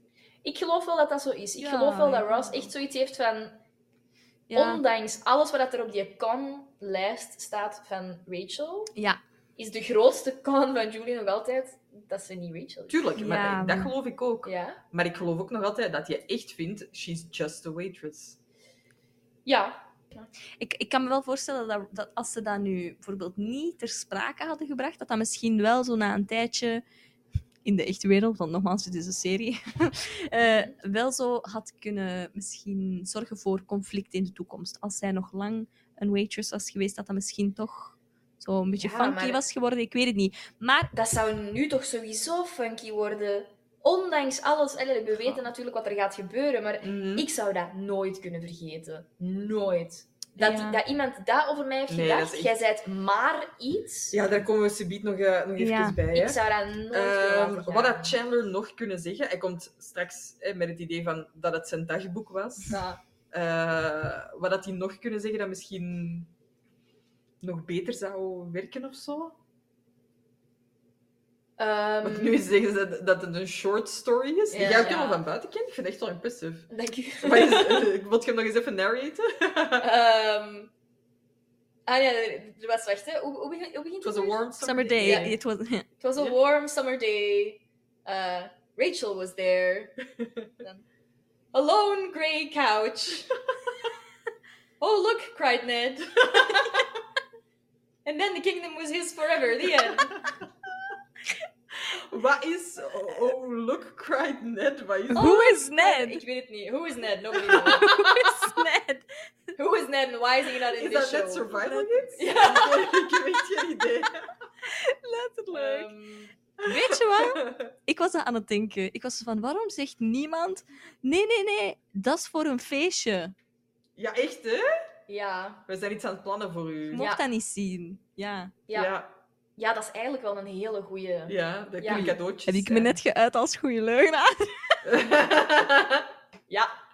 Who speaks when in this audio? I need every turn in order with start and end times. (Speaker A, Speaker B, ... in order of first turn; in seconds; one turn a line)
Speaker A: 0.4-3.6
Speaker B: 1.6-2.7
Speaker B: 4.5-4.8
Speaker A: 4.5-8.9
Speaker B: 9.0-9.2
Speaker A: 9.6-13.1
Speaker C: 12.9-18.4
Speaker B: 13.2-13.9
Speaker A: 14.4-14.8
Speaker A: 19.5-20.3
Speaker B: 20.6-26.8
Speaker B: 27.6-40.9
Speaker A: 30.5-30.8
Speaker A: 38.8-39.4
Speaker A: 40.9-54.2
Speaker C: 46.8-47.3
Speaker B: 50.4-50.8
Speaker C: 51.9-52.6
Speaker C: 54.1-62.8
Speaker B: 55.6-56.0
Speaker A: 56.1-58.2
Speaker A: 62.7-63.0
Speaker C: 63.3-66.3
Speaker C: 67.4-69.4
Speaker A: 71.6-72.4
Speaker C: 72.0-76.7
Speaker A: 74.5-75.2
Speaker A: 76.7-77.9
Speaker C: 77.2-79.9
Speaker A: 79.8-80.7
Speaker A: 81.9-85.3
Speaker C: 84.0-85.3
Speaker B: 84.6-85.9
Speaker A: 86.0-90.0
Speaker A: 91.5-93.3
Speaker A: 94.8-96.8
Speaker A: 98.0-100.2
Speaker C: 101.9-105.3
Speaker B: 105.1-106.2
Speaker A: 105.1-108.3
Speaker B: 107.5-109.0
Speaker A: 109.6-111.5
Speaker C: 110.8-114.3
Speaker B: 111.6-112.1
Speaker A: 112.2-112.9
Speaker B: 114.7-115.9
Speaker A: 115.5-116.3
Speaker C: 116.6-117.7
Speaker B: 116.6-123.3
Speaker C: 124.0-124.7
Speaker A: 125.1-125.6
Speaker C: 125.7-127.1
Speaker B: 126.9-128.6
Speaker A: 127.0-127.2
Speaker C: 128.7-129.1
Speaker A: 129.6-132.1
Speaker C: 131.3-133.0
Speaker B: 131.9-134.8
Speaker C: 134.8-136.1